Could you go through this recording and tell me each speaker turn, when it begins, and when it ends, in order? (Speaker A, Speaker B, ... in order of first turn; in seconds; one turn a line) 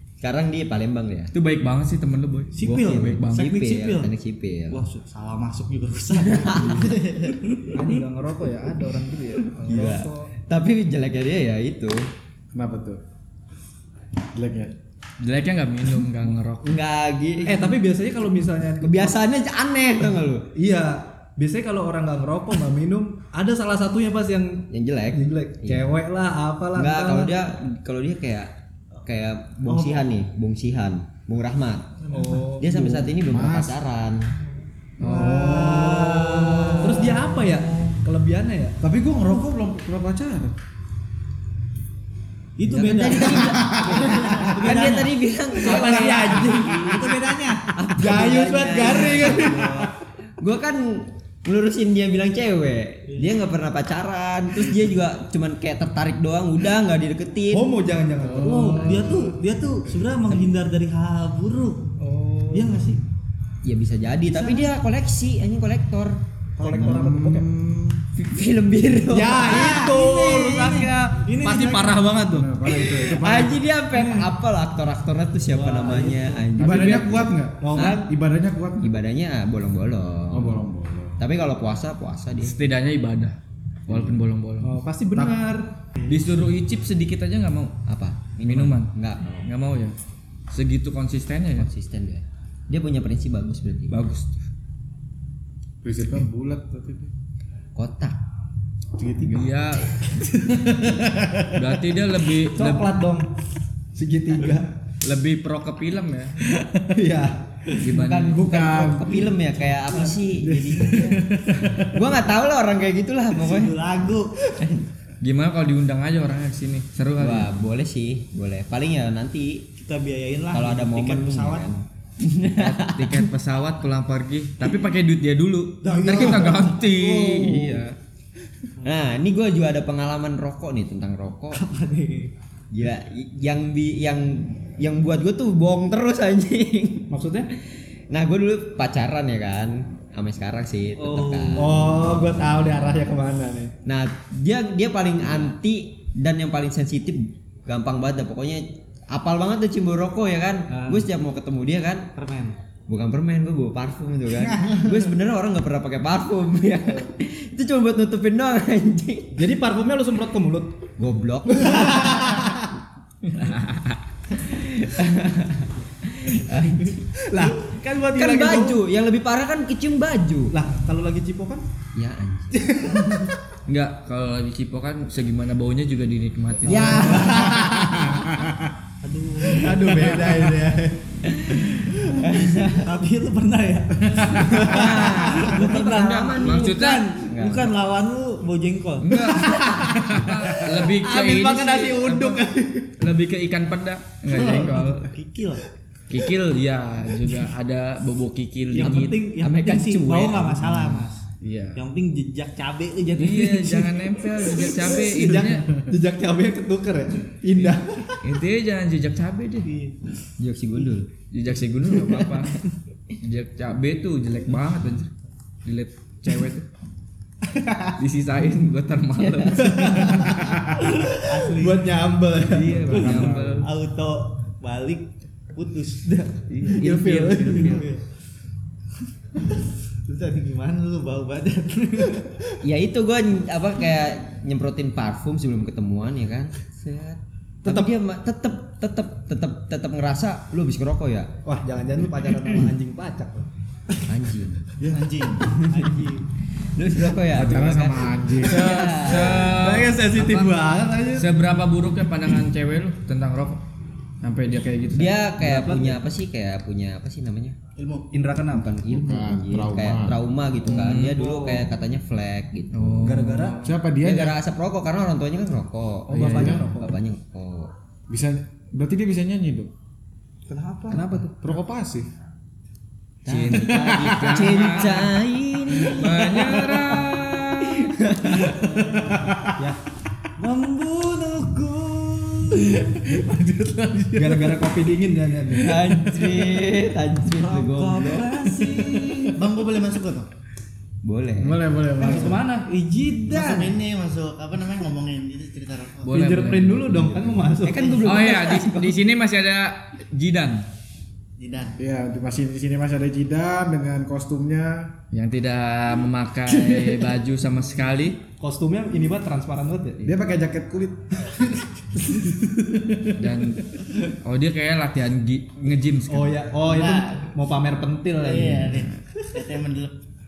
Speaker A: 0.2-1.3
Speaker B: 1.3-3.5
Speaker C: 2.5-4.1
Speaker A: 2.8-4.8
Speaker C: 4.7-8.0
Speaker A: 6.2-6.9
Speaker B: 6.6-6.9
Speaker D: 6.7-7.4
Speaker E: 7.7-10.3
Speaker A: 9.7-12.1
Speaker F: 12.5-13.0
Speaker F: 14.3-14.7
Speaker B: 15.2-16.7
Speaker A: 16.6-17.8
Speaker E: 17.4-19.2
Speaker A: 18.8-20.5
Speaker E: 20.5-27.3
Speaker A: 24.7-25.9
Speaker A: 26.8-28.5
Speaker A: 29.0-31.9
Speaker C: 32.1-32.5
Speaker E: 32.1-33.1
Speaker A: 32.6-34.3
Speaker F: 33.2-33.8
Speaker F: 35.0-37.1
Speaker C: 35.0-37.2
Speaker E: 35.0-36.0
Speaker E: 36.8-38.8
Speaker F: 38.8-40.5
Speaker C: 42.6-47.7
Speaker E: 42.6-43.8
Speaker A: 42.7-47.0
Speaker F: 43.5-44.5
Speaker E: 45.6-46.7
Speaker F: 46.7-47.1
Speaker A: 47.8-49.6
Speaker E: 47.9-49.8
Speaker C: 48.7-49.9
Speaker A: 50.4-57.7
Speaker E: 57.5-58.8
Speaker F: 58.2-59.4
Speaker C: 58.4-61.9
Speaker E: 62.0-62.9
Speaker C: 62.5-63.0
Speaker A: 63.6-66.2
Speaker C: 66.6-67.4
Speaker F: 66.7-68.0
Speaker E: 66.7-67.4
Speaker A: 68.2-69.6
Speaker E: 69.1-72.4
Speaker C: 69.3-72.0
Speaker B: 71.5-72.5
Speaker F: 72.3-73.7
Speaker A: 72.7-78.0
Speaker E: 74.0-74.2
Speaker C: 75.5-76.4
Speaker B: 76.6-77.3
Speaker F: 76.6-78.9
Speaker E: 76.7-78.1
Speaker A: 78.8-80.6
Speaker F: 80.3-81.2
Speaker A: 81.2-82.6
Speaker B: 82.4-83.3
Speaker B: 83.9-84.8
Speaker E: 84.6-85.7
Speaker B: 86.0-87.7
Speaker A: 87.9-89.5
Speaker B: 88.4-89.9
Speaker B: 90.5-91.7
Speaker A: 91.6-94.0
Speaker B: 93.9-94.3
Speaker F: 95.8-97.1
Speaker A: 97.8-98.2
Speaker F: 99.0-99.7
Speaker B: 99.3-100.1
Speaker F: 100.8-101.8
Speaker B: 101.5-102.9
Speaker E: 102.4-103.3
Speaker E: 103.9-104.7
Speaker B: 105.0-106.3
Speaker E: 106.5-107.8
Speaker B: 107.8-108.4
Speaker A: 107.8-111.2
Speaker F: 108.3-109.3
Speaker F: 110.4-111.8
Speaker E: 111.0-111.8
Speaker A: 111.9-113.7
Speaker C: 113.3-114.3
Speaker A: 114.6-114.8
Speaker B: 115.2-117.5
Speaker A: 117.2-119.7
Speaker C: 119.8-121.7
Speaker A: 120.5-123.3
Speaker B: 122.6-128.0
Speaker C: 125.8-127.2
Speaker A: 127.3-127.8
Speaker A: 128.8-131.6
Speaker C: 131.5-132.3
Speaker A: 132.7-137.1
Speaker E: 137.1-137.5
Speaker A: 138.1-142.2
Speaker C: 141.0-141.6
Speaker E: 141.6-143.7
Speaker A: 143.8-152.1
Speaker C: 150.7-151.0
Speaker C: 152.1-152.6
Speaker A: 152.9-159.3
Speaker C: 154.3-154.9
Speaker E: 159.3-160.7
Speaker A: 161.0-162.3
Speaker E: 161.5-162.6
Speaker B: 163.2-164.0
Speaker A: 164.3-167.1
Speaker E: 167.3-168.8
Speaker A: 168.1-170.5
Speaker E: 170.5-171.6
Speaker A: 171.9-172.6
Speaker E: 172.6-173.3
Speaker B: 173.7-177.3
Speaker E: 176.6-178.1
Speaker A: 176.7-177.5
Speaker C: 176.7-178.1
Speaker F: 177.8-178.7
Speaker C: 179.0-180.4
Speaker E: 179.5-180.9
Speaker F: 179.6-180.8
Speaker A: 181.3-182.9
Speaker C: 182.2-189.4
Speaker F: 184.2-184.5
Speaker A: 184.5-187.7
Speaker B: 185.5-187.2
Speaker B: 189.0-195.1
Speaker E: 189.4-190.0
Speaker E: 190.8-192.9
Speaker C: 194.3-195.6
Speaker B: 196.1-199.3
Speaker C: 198.7-201.2
Speaker A: 199.2-201.1
Speaker B: 201.4-201.8
Speaker C: 201.8-204.0
Speaker B: 203.1-205.9
Speaker E: 204.6-208.2
Speaker B: 208.2-209.7
Speaker C: 209.7-209.9
Speaker A: 210.4-211.1
Speaker B: 211.3-212.5
Speaker A: 212.0-212.4
Speaker B: 213.2-215.1
Speaker B: 215.6-216.7
Speaker B: 218.0-220.4
Speaker A: 219.2-220.1
Speaker E: 219.6-223.3
Speaker C: 221.1-222.0
Speaker B: 222.4-223.7
Speaker F: 222.5-223.7
Speaker C: 223.6-226.7
Speaker B: 226.5-227.9
Speaker E: 226.7-227.8
Speaker C: 227.5-228.0
Speaker C: 230.1-232.4
Speaker A: 232.6-241.3
Speaker E: 237.6-237.9
Speaker E: 241.4-243.5
Speaker A: 244.0-244.7
Speaker D: 244.8-245.5
Speaker A: 245.4-246.1
Speaker C: 245.7-246.2
Speaker A: 246.7-249.6
Speaker F: 247.3-248.8
Speaker E: 248.4-251.3
Speaker B: 248.8-250.5
Speaker B: 251.1-253.6
Speaker B: 254.2-255.2
Speaker A: 254.9-257.6
Speaker E: 255.4-256.0
Speaker D: 257.8-258.1
Speaker E: 258.1-258.7
Speaker A: 258.5-263.0
Speaker F: 258.8-260.2
Speaker B: 260.6-261.3
Speaker B: 262.7-263.8
Speaker E: 263.0-263.7
Speaker F: 263.6-264.4
Speaker A: 264.0-267.7
Speaker E: 266.1-267.0
Speaker B: 266.1-266.7
Speaker F: 266.2-266.7
Speaker F: 268.1-269.7
Speaker C: 270.5-271.0
Speaker E: 270.9-271.4
Speaker F: 271.3-272.1
Speaker A: 273.2-276.9
Speaker B: 273.2-275.2
Speaker F: 273.7-274.5
Speaker B: 275.9-277.9
Speaker A: 277.9-278.6
Speaker C: 278.8-279.2
Speaker F: 278.8-279.6
Speaker C: 280.4-283.0
Speaker F: 283.0-284.6
Speaker E: 284.1-285.9
Speaker A: 285.6-288.6
Speaker C: 287.4-289.4
Speaker D: 289.3-290.3
Speaker A: 291.0-291.6
Speaker F: 291.4-292.4
Speaker E: 292.0-292.9
Speaker C: 292.0-293.8
Speaker D: 293.3-296.1
Speaker B: 296.0-300.6
Speaker E: 296.1-298.1
Speaker A: 297.6-299.0
Speaker D: 301.4-301.8
Speaker F: 301.8-305.0
Speaker B: 305.1-308.2
Speaker E: 308.4-310.1
Speaker F: 310.0-311.6
Speaker B: 313.2-313.6
Speaker B: 314.2-316.4
Speaker E: 316.1-318.8
Speaker D: 316.6-317.3
Speaker D: 318.2-319.9